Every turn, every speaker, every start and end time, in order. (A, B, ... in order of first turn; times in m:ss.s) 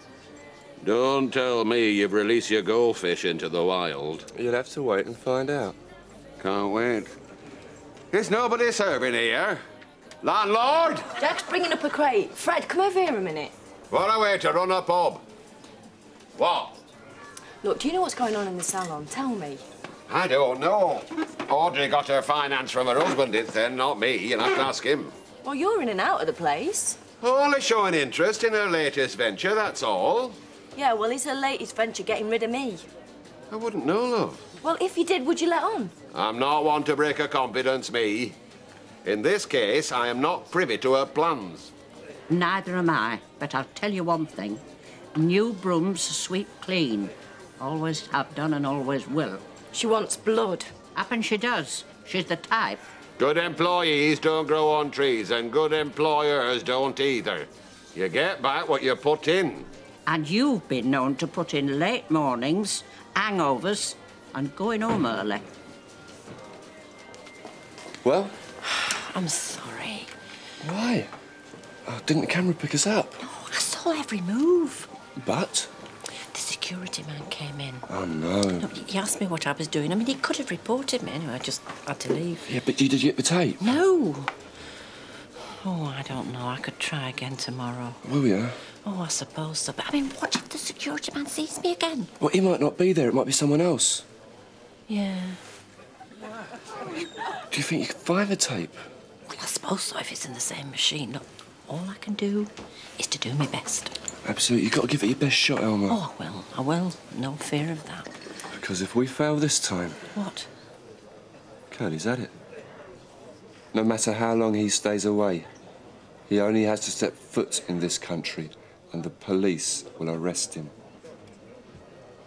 0:00.8-0:04.3 A
0:04.3-0:05.8 B
0:06.4-0:07.1 A
0:08.1-0:09.6 A
0:10.2-0:11.1 A
0:11.2-0:13.5 C
0:13.9-0:15.2 A
0:16.4-0:16.8 A
0:17.6-0:19.6 C
0:20.1-0:25.1 A
0:25.4-0:27.0 C
0:27.2-0:30.4 A
0:30.7-0:32.9 C
0:33.5-0:34.4 A
0:34.6-0:35.9 C
0:36.1-0:38.4 A
0:39.0-0:41.7 A
0:42.3-0:44.6 D
0:45.1-0:49.4 D
0:49.7-0:50.7 C
0:50.9-0:52.8 D
0:53.2-0:59.7 A
1:00.1-1:05.5 D
1:08.0-1:08.4 B
1:08.6-1:10.1 E
1:10.6-1:11.1 B
1:11.8-1:13.2 B
1:13.2-1:14.9 E
1:15.2-1:15.7 B
1:16.2-1:17.9 E
1:17.9-1:18.7 B
1:18.6-1:22.6 E
1:22.4-1:23.6 B
1:23.6-1:24.3 E
1:25.6-1:28.0 E
1:28.0-1:28.6 B
1:28.8-1:32.1 E
1:32.2-1:34.0 B
1:34.9-1:35.4 E
1:37.5-1:38.8 B
1:39.3-1:44.0 E
1:44.2-1:46.0 B
1:45.9-1:48.2 E
1:48.5-1:50.0 B
1:50.1-1:50.5 E
1:51.7-1:52.3 B
1:53.7-1:55.5 B
1:56.3-2:00.7 B